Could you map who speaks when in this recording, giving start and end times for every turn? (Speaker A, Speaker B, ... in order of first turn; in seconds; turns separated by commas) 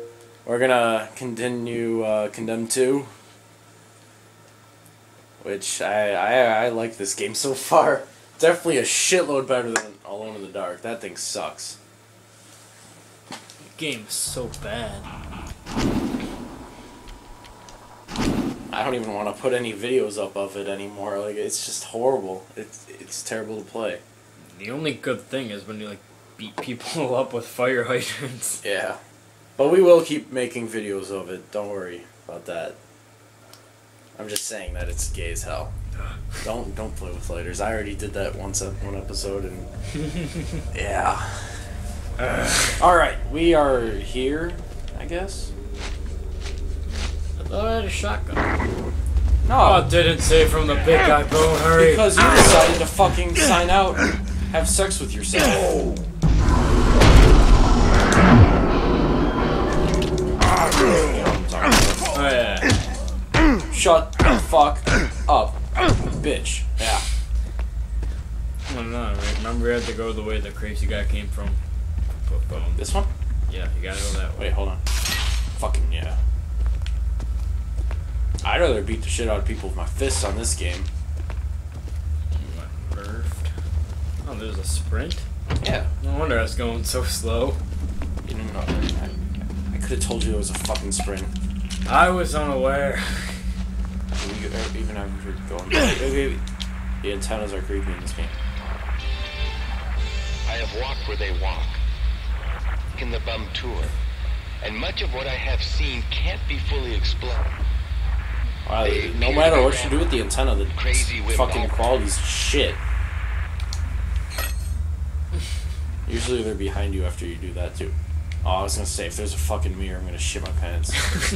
Speaker A: 0.5-3.1, Speaker A: 5.4-11.8, Speaker B: 13.6-15.1, Speaker A: 18.7-24.0, Speaker B: 24.5-28.6, Speaker A: 28.6-29.0, Speaker A: 29.6-32.8, Speaker A: 34.2-35.7, Speaker B: 36.0-36.4, Speaker A: 36.4-39.7, Speaker B: 40.0-40.6, Speaker A: 40.7-41.7, Speaker B: 42.2-42.8, Speaker A: 42.8-45.5, Speaker B: 46.9-48.5, Speaker A: 49.4-49.9, Speaker B: 49.5-52.4, Speaker A: 51.8-55.8, Speaker A: 60.8-62.2, Speaker B: 62.1-62.7, Speaker A: 63.7-67.0, Speaker B: 68.7-71.6, Speaker B: 72.2-72.9, Speaker A: 72.8-73.1, Speaker B: 73.5-74.5, Speaker A: 74.4-74.8, Speaker A: 75.5-76.2, Speaker A: 78.4-80.9, Speaker B: 82.3-83.5, Speaker B: 84.2-85.2, Speaker A: 85.6-85.9, Speaker B: 86.0-87.6, Speaker A: 88.2-91.3, Speaker B: 91.8-93.4, Speaker A: 94.2-96.4, Speaker A: 97.0-98.3, Speaker C: 100.5-101.8, Speaker C: 103.0-103.9, Speaker C: 104.6-107.5, Speaker A: 108.7-112.8, Speaker C: 108.8-110.1, Speaker C: 110.7-111.8, Speaker A: 116.1-121.1